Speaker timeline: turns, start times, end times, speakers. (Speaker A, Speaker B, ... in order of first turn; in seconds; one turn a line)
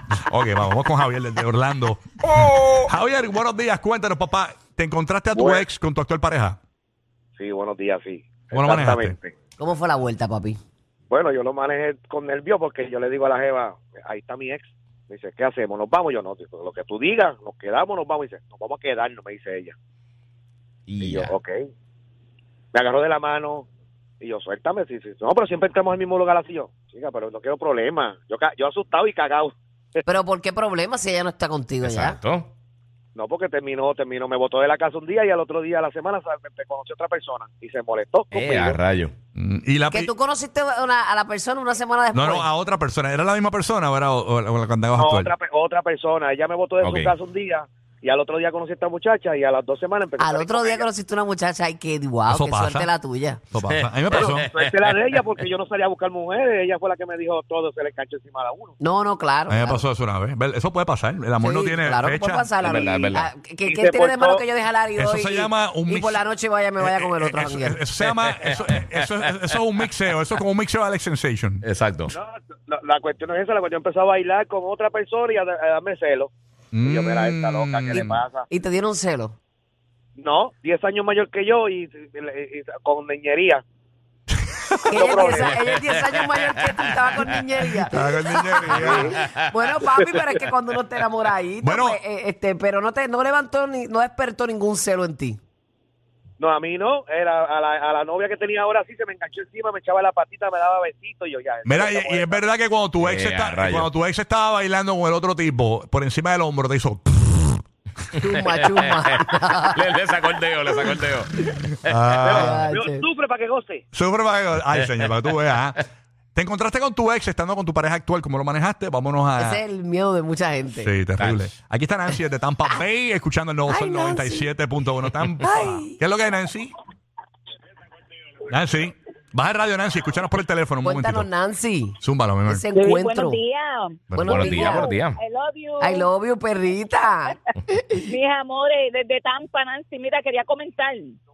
Speaker A: 0.1-2.0
Speaker A: 2.7-6.6
Speaker B: 5.3-5.7
Speaker B: 7.4-9.3
Speaker A: 8.5-9.2
Speaker C: 9.6-10.6
Speaker B: 11.1-19.7
Speaker D: 20.9-21.3
Speaker B: 21.0-21.6
Speaker B: 22.7-23.7
Speaker B: 24.2-30.0
Speaker C: 30.1-32.2
Speaker D: 31.8-32.5
Speaker B: 33.1-38.8
Speaker D: 38.3-39.1
Speaker A: 39.4-40.1
Speaker C: 39.9-42.5
Speaker A: 42.1-45.3
Speaker B: 45.0-50.9
Speaker D: 46.8-47.1
Speaker C: 50.2-53.4
Speaker A: 52.3-52.9
Speaker A: 53.5-54.5
Speaker D: 53.6-55.4
Speaker B: 54.1-58.8
Speaker C: 58.8-59.8
Speaker A: 59.5-62.6
Speaker C: 61.4-67.8
Speaker D: 62.6-63.3
Speaker B: 63.7-64.4
Speaker A: 65.0-66.2
Speaker A: 66.8-71.6
Speaker D: 68.1-69.5
Speaker D: 71.6-72.2
Speaker B: 72.1-78.5
Speaker A: 76.7-78.2
Speaker C: 77.9-79.4
Speaker B: 80.2-83.6
Speaker A: 84.4-85.0
Speaker B: 84.8-85.5
Speaker C: 84.9-95.4
Speaker D: 85.4-87.4
Speaker A: 87.9-89.1
Speaker B: 88.6-89.1
Speaker D: 89.2-89.5
Speaker A: 91.6-92.0
Speaker B: 96.4-102.5
Speaker A: 101.6-107.6
Speaker D: 103.0-103.9
Speaker D: 108.2-112.2
Speaker C: 108.2-109.8
Speaker A: 111.7-112.7
Speaker B: 112.2-113.8
Speaker C: 112.3-113.0
Speaker A: 113.9-115.8
Speaker D: 114.7-115.5
Speaker A: 116.3-119.6
Speaker C: 119.4-120.9
Speaker A: 120.8-126.7
Speaker D: 121.2-121.5
Speaker C: 123.7-124.5
Speaker C: 125.4-126.0
Speaker A: 128.5-131.3
Speaker C: 130.8-133.4
Speaker A: 132.0-132.6
Speaker E: 132.7-136.1
Speaker A: 134.1-134.5
Speaker C: 134.1-134.9
Speaker D: 134.2-135.2
Speaker C: 135.8-138.0
Speaker E: 138.0-141.2